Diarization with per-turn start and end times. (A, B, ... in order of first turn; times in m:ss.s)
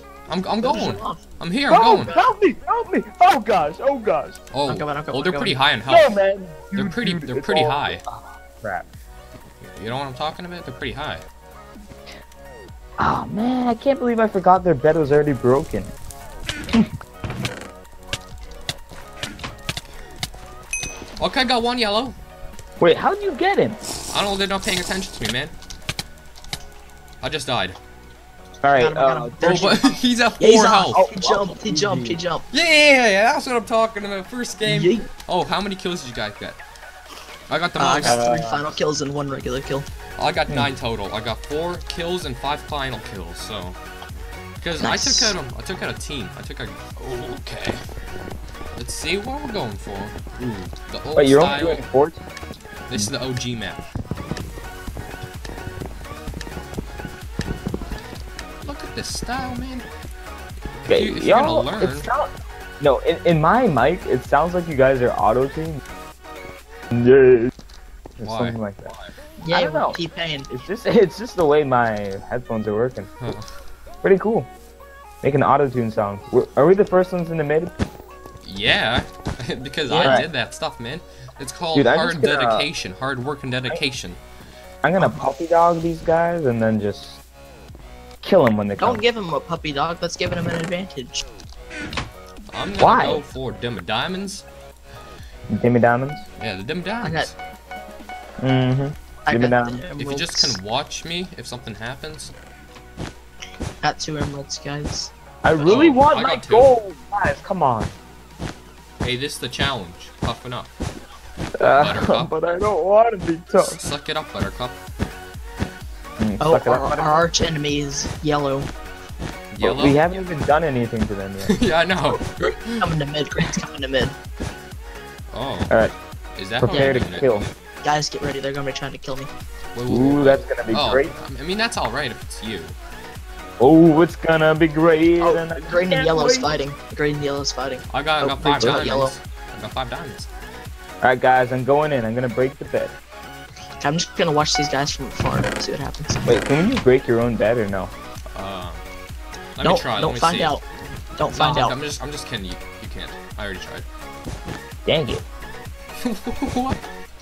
0:00.3-0:02.2 A
0:00.6-0:01.2 B
0:01.7-0:04.4 C
0:02.0-0:02.2 B
0:04.5-0:06.2 A
0:04.6-0:05.6 B
0:05.9-0:08.9 C
0:06.7-0:08.0 A
0:09.6-0:11.2 A
0:13.0-0:15.9 C
0:21.2-0:22.1 A
0:22.8-0:23.8 C
0:24.1-0:25.5 A
0:27.2-0:27.8 A
0:28.6-0:29.8 C
0:28.8-0:32.4 B
0:29.4-0:31.0 A
0:30.9-0:32.2 C
0:32.5-0:36.6 A
0:34.6-0:35.1 B
0:37.5-0:38.2 A
0:37.8-0:39.9 B
0:38.0-0:38.6 C
0:40.2-0:43.8 A
0:44.6-0:47.8 A
0:44.8-0:45.3 B
0:48.8-0:51.8 A
0:51.1-0:52.2 C
0:52.9-0:53.9 A
0:58.6-0:59.9 A
1:00.8-1:02.1 A
1:00.9-1:05.8 C
1:06.9-1:07.5 C
1:08.2-1:08.9 C
1:08.2-1:08.6 A
1:09.4-1:10.5 B
1:09.5-1:10.0 C
1:10.5-1:13.3 C
1:13.2-1:13.5 A
1:14.0-1:14.5 C
1:15.2-1:17.7 C
1:18.4-1:24.2 A
1:19.9-1:20.2 B
1:20.0-1:20.3 C
1:21.7-1:22.7 C
1:24.8-1:27.2 C
1:28.2-1:29.0 C
1:28.8-1:31.2 B
1:32.5-1:34.4 A
1:32.8-1:33.2 C
1:35.5-1:36.2 C
1:36.4-1:37.3 A
1:37.0-1:37.3 B
1:38.4-1:39.8 C
1:39.2-1:40.6 B
1:40.0-1:42.3 A
1:43.8-1:45.1 B
1:45.4-1:47.9 C
1:45.6-1:46.7 A
1:49.0-1:50.7 A
1:51.6-1:53.8 C
1:51.6-1:52.3 A
1:53.6-1:54.8 A
1:56.2-1:57.2 C
1:56.4-1:58.7 B
1:59.5-2:00.0 A
1:59.6-2:01.6 C
2:01.4-2:02.9 A
2:02.8-2:04.1 B
2:05.3-2:05.8 A
2:05.7-2:05.9 C
2:06.4-2:07.5 A
2:06.6-2:07.5 C
2:06.7-2:07.0 B
2:07.8-2:09.3 B
2:09.7-2:12.8 A
2:09.9-2:11.1 C
2:13.6-2:16.5 C
2:15.2-2:19.1 B
2:17.9-2:20.3 A
2:18.2-2:18.9 C
2:21.0-2:23.0 C
2:23.8-2:26.3 B
2:26.2-2:27.9 C
2:28.3-2:28.8 A
2:29.6-2:30.6 A
2:29.6-2:30.6 B
2:31.2-2:31.8 B
2:31.3-2:33.9 A
2:34.8-2:35.2 C
2:36.0-2:36.8 A